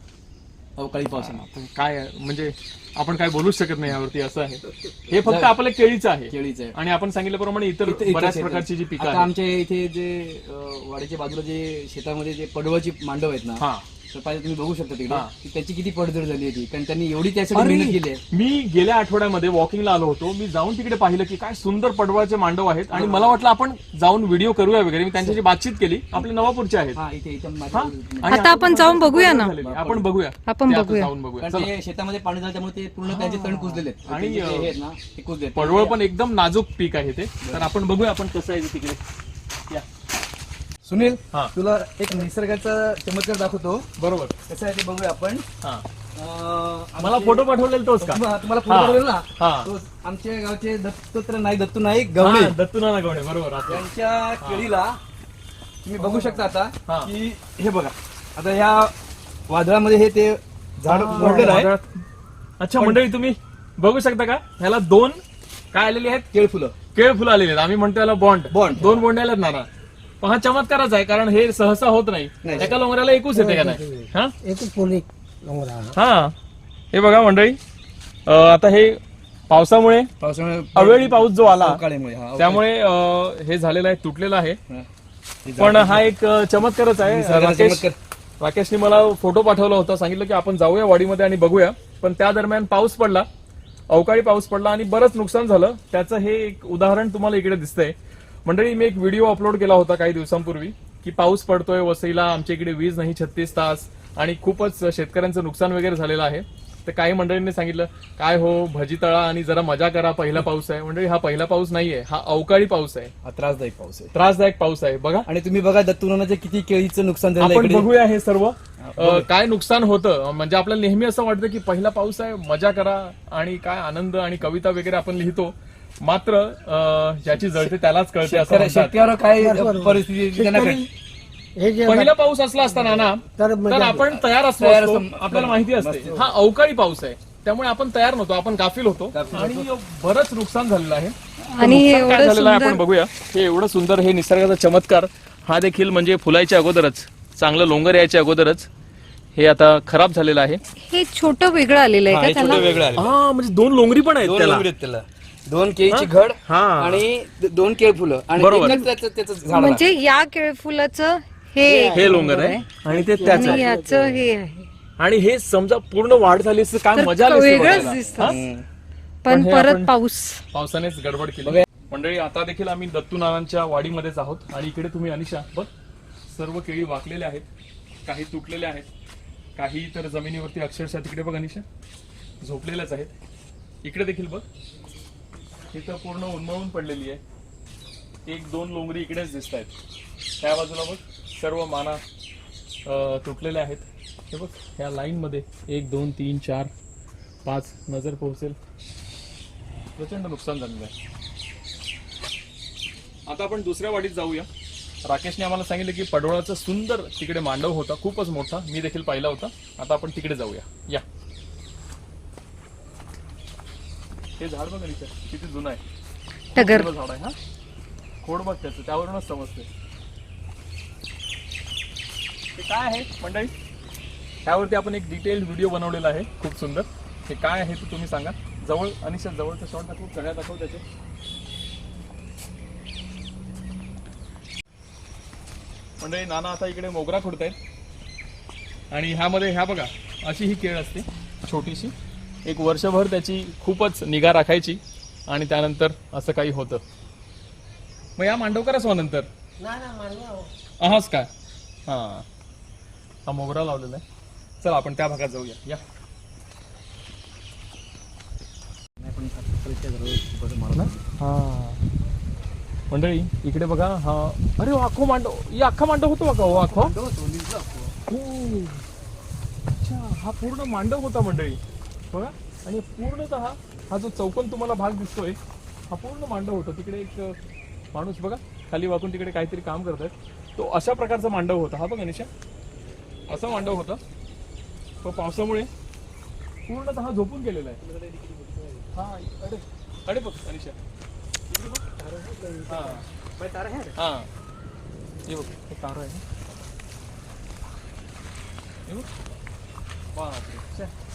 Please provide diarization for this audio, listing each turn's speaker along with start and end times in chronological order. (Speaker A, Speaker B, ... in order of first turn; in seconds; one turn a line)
Speaker A: 0.8-1.4
Speaker B: 1.1-9.3
Speaker A: 5.2-5.6
Speaker A: 6.3-6.8
Speaker A: 7.8-18.2
Speaker B: 13.6-13.8
Speaker B: 17.5-27.0
Speaker A: 22.9-23.4
Speaker A: 26.9-28.6
Speaker B: 27.7-31.7
Speaker C: 28.3-29.6
Speaker A: 29.6-30.1
Speaker C: 30.5-31.1
Speaker A: 31.4-36.0
Speaker B: 33.1-34.7
Speaker B: 35.5-39.0
Speaker A: 37.4-37.7
Speaker A: 40.8-43.9
Speaker B: 44.0-44.3
Speaker A: 44.5-45.5
Speaker A: 46.2-52.6
Speaker B: 47.0-49.7
Speaker B: 52.2-53.9
Speaker A: 53.7-55.0
Speaker B: 54.4-54.7
Speaker A: 55.8-58.9
Speaker B: 56.0-57.1
Speaker A: 59.5-61.7
Speaker B: 60.9-61.9
Speaker B: 62.6-65.2
Speaker B: 65.7-66.3
Speaker A: 66.3-66.8
Speaker B: 66.9-69.7
Speaker A: 68.5-69.1
Speaker B: 70.2-74.3
Speaker A: 72.4-72.8
Speaker D: 73.3-75.9
Speaker B: 75.9-76.3
Speaker B: 76.9-77.6
Speaker B: 78.3-80.1
Speaker A: 80.2-82.7
Speaker B: 80.8-81.8
Speaker B: 82.4-84.6
Speaker A: 85.5-86.1
Speaker B: 85.6-87.9
Speaker A: 87.0-88.0
Speaker B: 88.4-93.3
Speaker B: 93.9-113.1
Speaker A: 113.2-114.2
Speaker B: 114.1-115.3
Speaker A: 115.3-117.9
Speaker B: 117.4-129.0
Speaker A: 118.8-119.3
Speaker A: 127.4-127.7
Speaker A: 128.2-130.9
Speaker D: 129.4-130.0
Speaker B: 130.4-130.8
Speaker D: 131.6-132.1
Speaker B: 131.8-148.7
Speaker D: 133.2-134.1
Speaker A: 134.6-136.3
Speaker A: 139.1-139.7
Speaker C: 141.5-142.8
Speaker B: 149.3-150.6
Speaker C: 150.8-152.9
Speaker A: 152.1-153.1
Speaker B: 152.4-154.7
Speaker A: 154.2-159.9
Speaker B: 155.9-157.0
Speaker B: 158.4-158.8
Speaker C: 159.5-162.6
Speaker D: 161.6-164.2
Speaker B: 161.9-163.7
Speaker C: 163.2-164.7
Speaker B: 165.0-168.4
Speaker C: 166.9-168.4
Speaker A: 167.7-168.7
Speaker C: 169.2-170.4
Speaker B: 169.3-169.9
Speaker B: 170.5-175.7
Speaker B: 176.3-177.5
Speaker B: 178.1-178.9
Speaker B: 179.6-181.7
Speaker B: 182.4-183.1
Speaker B: 183.8-184.5
Speaker B: 185.7-187.2
Speaker B: 188.3-189.7
Speaker B: 190.4-192.0
Speaker B: 192.9-196.7
Speaker B: 197.4-198.6
Speaker B: 200.0-200.9
Speaker B: 203.3-204.5
Speaker B: 205.0-211.0
Speaker B: 214.4-215.8
Speaker B: 216.5-217.3
Speaker C: 216.6-216.9
Speaker B: 218.2-219.7
Speaker B: 222.6-223.5
Speaker B: 224.4-230.8
Speaker B: 236.0-237.6
Speaker B: 238.9-241.9
Speaker B: 242.4-246.8
Speaker B: 248.2-249.3
Speaker D: 249.6-250.5
Speaker B: 250.8-251.3
Speaker B: 251.9-252.2
Speaker B: 253.3-254.0
Speaker B: 254.6-255.8
Speaker A: 259.0-261.1
Speaker B: 260.8-261.8
Speaker B: 262.9-266.9
Speaker A: 266.5-267.9
Speaker B: 268.1-268.8
Speaker B: 269.8-271.6
Speaker B: 272.1-275.4
Speaker B: 275.9-277.4
Speaker B: 277.9-282.3
Speaker B: 283.3-284.0
Speaker A: 283.3-283.8
Speaker B: 285.0-285.7
Speaker B: 286.7-287.8
Speaker A: 287.8-288.9
Speaker B: 288.9-290.8
Speaker B: 291.5-291.8
Speaker A: 292.0-294.0
Speaker B: 292.7-293.0
Speaker B: 294.0-294.3
Speaker B: 295.3-296.2
Speaker B: 300.1-300.9